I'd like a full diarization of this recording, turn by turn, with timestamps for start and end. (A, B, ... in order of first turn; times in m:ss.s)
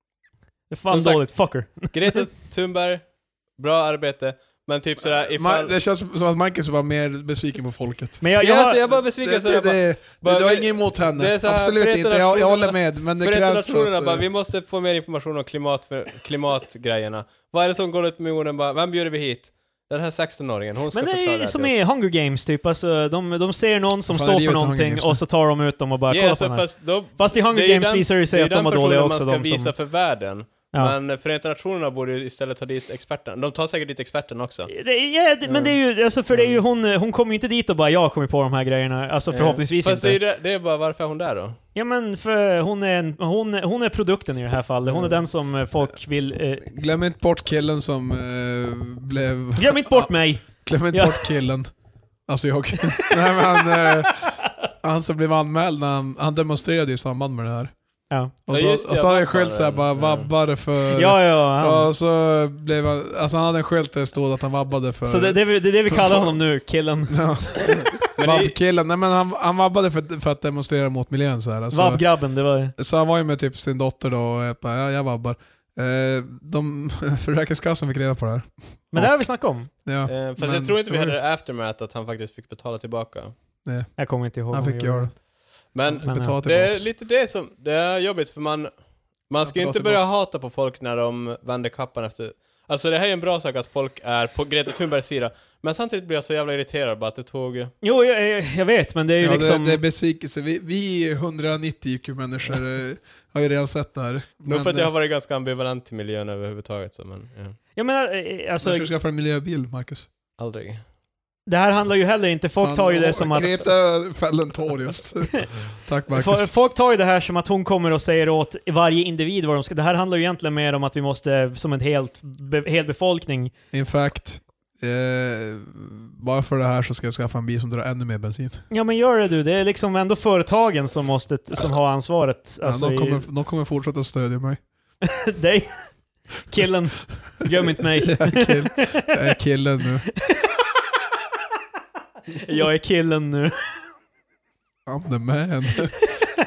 0:00.7-0:02.3 A
0:00.9-0:05.7 B
0:05.3-0:08.2 C
0:08.2-0:08.8 A
0:08.4-0:21.8 B
0:09.2-0:14.2 C
0:20.9-0:29.7 A
0:24.1-0:25.2 C
0:26.1-0:34.7 B
0:34.7-0:40.2 A
0:35.4-0:35.8 B
0:36.3-0:36.6 B
0:39.3-0:41.6 B
0:41.8-0:46.7 A
0:44.9-0:45.2 B
0:46.6-0:51.7 C
0:49.6-0:51.3 A
0:52.3-0:57.7 C
0:58.4-1:06.4 C
0:58.5-1:00.3 B
1:00.9-1:01.9 A
1:05.1-1:07.2 A
1:07.1-1:12.0 C
1:08.2-1:08.6 B
1:11.7-1:12.7 A
1:12.8-1:21.2 C
1:18.9-1:19.7 A
1:20.1-1:23.3 B
1:23.6-1:25.2 C
1:24.0-1:25.2 A
1:25.7-1:37.7 B
1:25.9-1:26.9 C
1:26.0-1:26.4 A
1:29.4-1:30.1 C
1:37.8-1:39.8 A
1:39.2-1:44.9 C
1:44.4-1:47.6 B
1:47.8-1:48.9 A
1:48.6-1:50.1 C
1:50.4-1:50.8 B
1:51.5-1:53.7 A
1:52.6-1:56.5 C
1:56.1-2:03.5 A
2:03.7-2:08.7 C
2:08.7-2:13.3 A
2:12.6-2:14.6 C
2:15.0-2:19.1 A
2:18.0-2:20.1 C
2:22.4-2:23.7 A
2:24.9-2:26.0 C